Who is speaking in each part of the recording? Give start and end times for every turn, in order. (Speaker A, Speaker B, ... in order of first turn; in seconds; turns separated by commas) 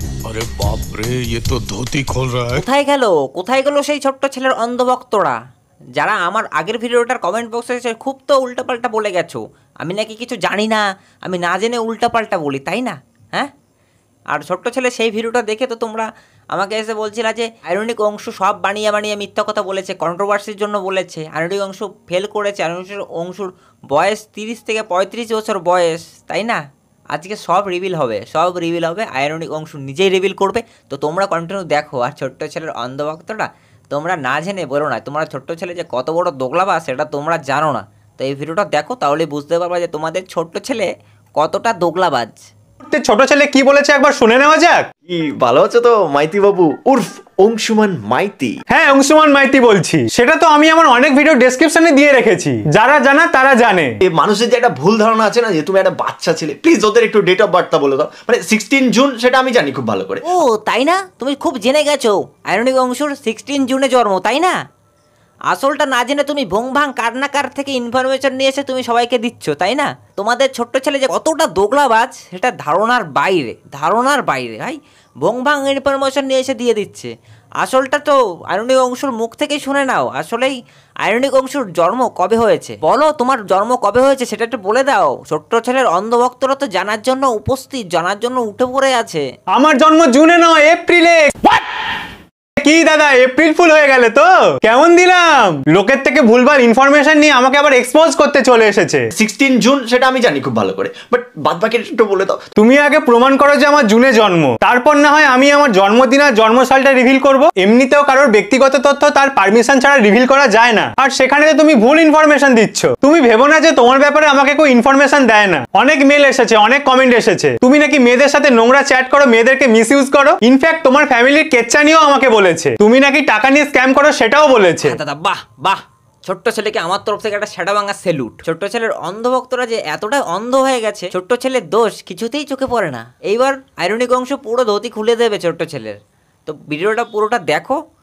Speaker A: 0.2-2.6, Speaker B: 2.5-5.4, Speaker B: 6.0-13.5, Speaker B: 14.3-26.6, Speaker B: 27.1-42.4, Speaker C: 42.8-44.9, Speaker D: 45.1-48.5, Speaker C: 48.7-53.9, Speaker D: 54.1-60.2, Speaker B: 60.2-64.5, Speaker B: 65.5-89.2, Speaker C: 89.5-91.6, Speaker C: 92.6-99.0, Speaker D: 99.2-102.4, Speaker C: 102.6-125.0, Speaker B: 124.8-137.8